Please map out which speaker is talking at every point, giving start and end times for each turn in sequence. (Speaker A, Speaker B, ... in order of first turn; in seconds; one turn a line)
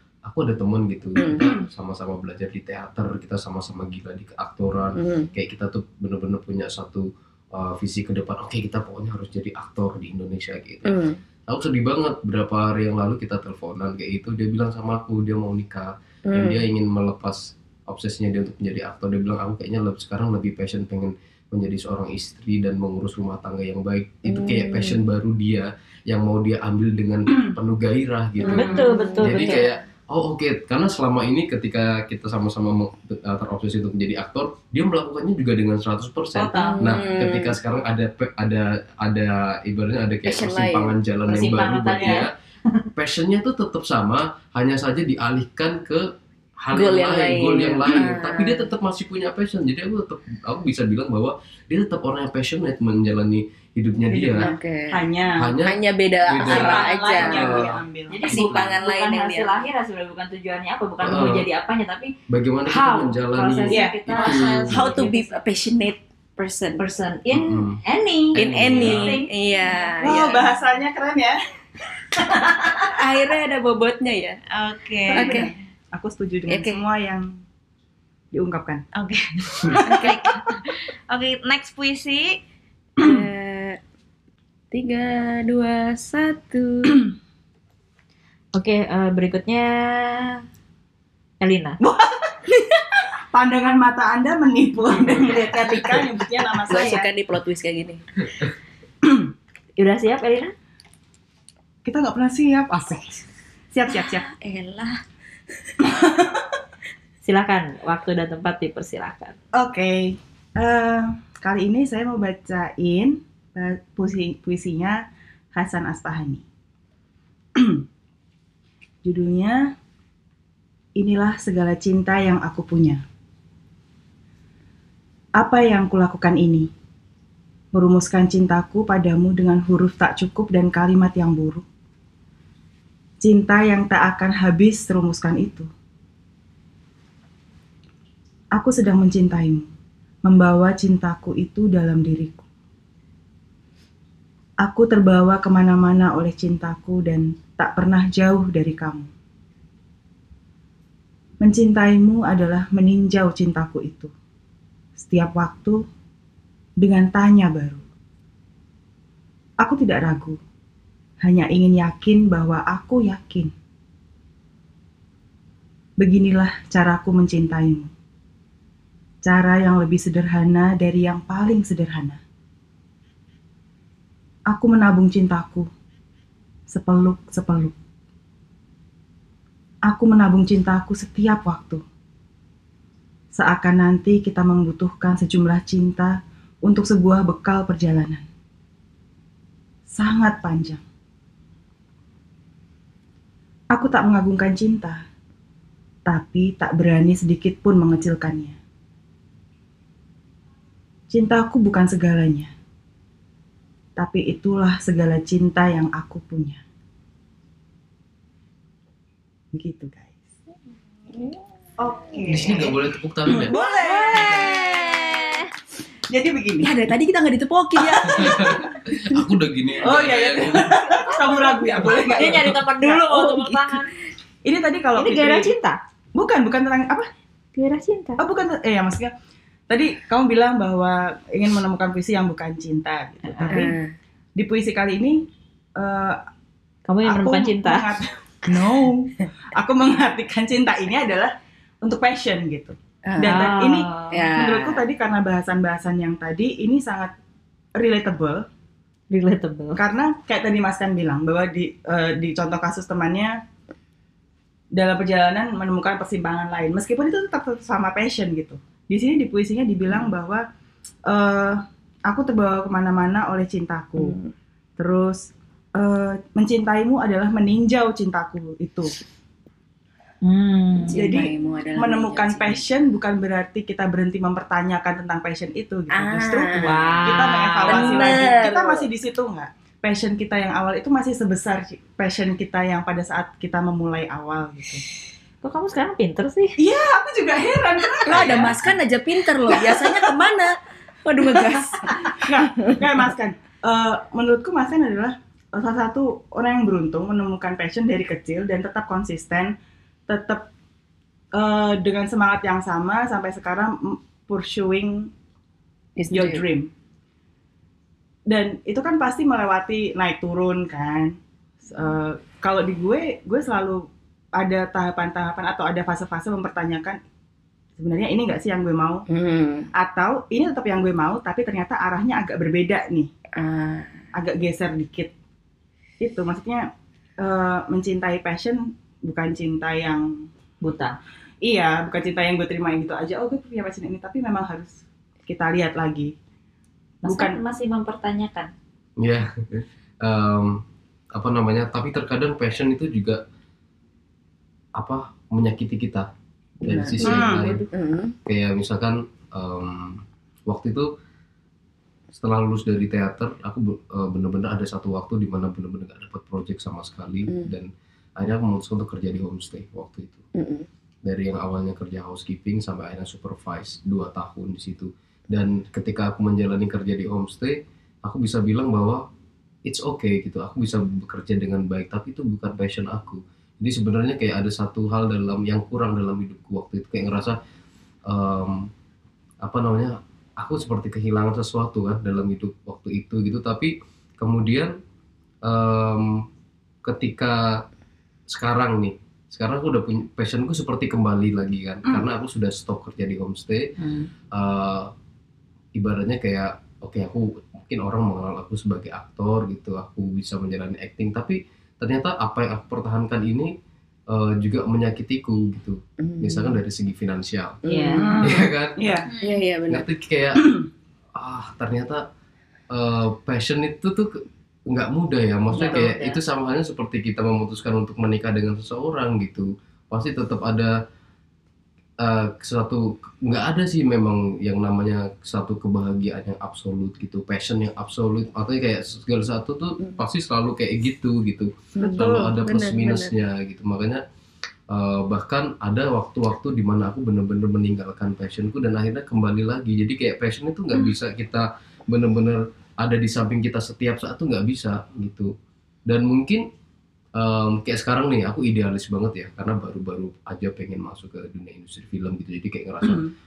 Speaker A: 0.3-42.3
Speaker B: 1.2-1.5
Speaker B: 5.0-5.3
Speaker B: 10.9-11.2
Speaker B: 16.3-16.6
Speaker B: 24.3-25.0
Speaker B: 28.4-29.8
Speaker C: 28.4-29.7
Speaker D: 28.6-28.8
Speaker D: 36.4-36.9
Speaker B: 36.5-37.6
Speaker B: 40.2-41.0
Speaker C: 41.3-42.3
Speaker A: 43.0-46.1
Speaker A: 46.6-54.5
Speaker B: 46.7-48.7
Speaker D: 54.1-55.5
Speaker B: 54.4-55.0
Speaker A: 55.4-55.8
Speaker B: 55.6-57.6
Speaker A: 56.3-58.7
Speaker D: 56.4-58.2
Speaker C: 58.1-62.1
Speaker B: 58.2-59.6
Speaker A: 61.0-61.5
Speaker A: 62.3-65.0
Speaker C: 62.7-65.5
Speaker D: 63.7-64.0
Speaker B: 64.1-66.8
Speaker C: 66.8-69.3
Speaker A: 67.3-67.8
Speaker A: 68.3-69.2
Speaker B: 68.4-70.2
Speaker D: 70.0-71.4
Speaker B: 72.8-74.4
Speaker E: 74.5-75.4
Speaker D: 75.1-77.4
Speaker B: 75.1-75.5
Speaker B: 76.5-76.8
Speaker D: 78.3-78.8
Speaker E: 78.9-82.4
Speaker B: 79.9-80.3
Speaker B: 83.0-83.8
Speaker B: 84.7-87.1
Speaker C: 88.5-90.4
Speaker C: 91.4-91.8
Speaker D: 91.8-92.5
Speaker D: 93.3-97.1
Speaker B: 96.7-98.2
Speaker D: 99.0-99.3
Speaker C: 99.8-100.5
Speaker D: 101.8-104.3
Speaker B: 104.3-105.0
Speaker D: 105.8-106.5
Speaker C: 107.2-109.3
Speaker D: 109.5-115.0
Speaker D: 115.5-116.4
Speaker D: 117.6-117.8
Speaker D: 119.0-119.6
Speaker D: 121.0-123.0
Speaker D: 125.4-126.7
Speaker D: 127.7-131.7
Speaker D: 133.2-135.7
Speaker D: 138.6-139.7
Speaker D: 140.2-142.5
Speaker D: 144.6-149.1
Speaker D: 151.4-154.1
Speaker D: 155.0-155.8
Speaker D: 156.8-157.8
Speaker D: 159.6-160.4
Speaker D: 161.2-163.5
Speaker D: 166.0-167.9
Speaker D: 169.2-172.2
Speaker D: 174.5-175.7
Speaker D: 176.7-177.7
Speaker D: 179.9-181.8
Speaker D: 183.3-188.3
Speaker D: 189.9-190.8
Speaker D: 193.7-195.0
Speaker D: 196.1-198.6
Speaker D: 201.1-202.5
Speaker D: 204.0-206.6
Speaker D: 209.5-210.3
Speaker E: 211.8-212.5
Speaker D: 212.1-212.7
Speaker A: 212.3-213.5
Speaker D: 213.3-214.8
Speaker B: 213.5-215.3
Speaker D: 216.1-216.7
Speaker B: 216.6-218.7
Speaker D: 218.0-218.5
Speaker A: 218.1-220.7
Speaker D: 219.8-223.1
Speaker B: 220.9-222.4
Speaker C: 222.1-223.9
Speaker B: 223.1-223.7
Speaker D: 224.4-225.6
Speaker C: 225.0-225.8
Speaker D: 226.2-227.1
Speaker C: 227.6-228.2
Speaker D: 228.2-229.1
Speaker D: 229.7-233.7
Speaker C: 233.3-233.7
Speaker B: 233.5-233.9
Speaker D: 234.4-235.3
Speaker D: 235.8-236.2
Speaker C: 236.9-238.0
Speaker D: 237.0-247.1
Speaker B: 243.1-243.5
Speaker C: 243.2-244.2
Speaker B: 244.1-244.9
Speaker D: 247.8-248.5
Speaker C: 249.1-249.8
Speaker D: 249.8-253.3
Speaker D: 254.8-260.4
Speaker D: 261.1-264.2
Speaker B: 264.0-264.3
Speaker D: 264.8-268.9
Speaker C: 270.2-271.0
Speaker B: 270.9-272.6
Speaker D: 270.9-284.8
Speaker B: 275.9-278.9
Speaker C: 276.6-278.4
Speaker C: 285.4-286.6
Speaker D: 286.6-288.7
Speaker B: 288.1-290.5
Speaker D: 289.5-290.1
Speaker B: 291.1-292.8
Speaker D: 291.2-299.6
Speaker D: 300.1-300.5
Speaker D: 301.4-305.1
Speaker B: 306.0-306.4
Speaker D: 306.1-306.7
Speaker D: 308.3-317.0
Speaker D: 317.8-319.1
Speaker B: 319.1-319.7
Speaker D: 319.8-323.1
Speaker B: 323.4-324.0
Speaker D: 324.1-325.1
Speaker D: 326.0-330.3
Speaker C: 330.6-331.0
Speaker D: 331.4-336.1
Speaker D: 337.1-337.4
Speaker C: 337.1-338.5
Speaker A: 339.0-340.6
Speaker A: 341.1-343.2
Speaker A: 344.8-346.1
Speaker A: 346.6-347.7
Speaker B: 346.7-348.2
Speaker D: 347.0-347.5
Speaker A: 348.3-350.9
Speaker A: 352.1-360.2
Speaker B: 360.4-360.7
Speaker A: 361.1-369.1
Speaker A: 369.7-377.4
Speaker A: 378.1-378.7
Speaker A: 379.4-384.7
Speaker A: 385.4-386.2
Speaker A: 386.9-387.6
Speaker A: 388.3-393.7
Speaker A: 394.3-394.9
Speaker A: 395.8-403.5
Speaker A: 404.1-407.6
Speaker B: 406.0-406.6
Speaker C: 407.6-408.2
Speaker B: 407.6-408.3
Speaker D: 408.0-409.1
Speaker A: 408.2-409.0
Speaker B: 409.2-409.9
Speaker A: 409.7-410.5
Speaker D: 410.4-410.7
Speaker A: 411.1-412.0
Speaker A: 412.7-420.8
Speaker C: 415.5-416.0
Speaker D: 415.6-416.1
Speaker A: 422.0-434.0
Speaker B: 431.8-433.1
Speaker D: 431.8-432.3
Speaker A: 434.7-445.3
Speaker A: 445.9-446.4
Speaker A: 447.2-453.0
Speaker D: 452.8-453.1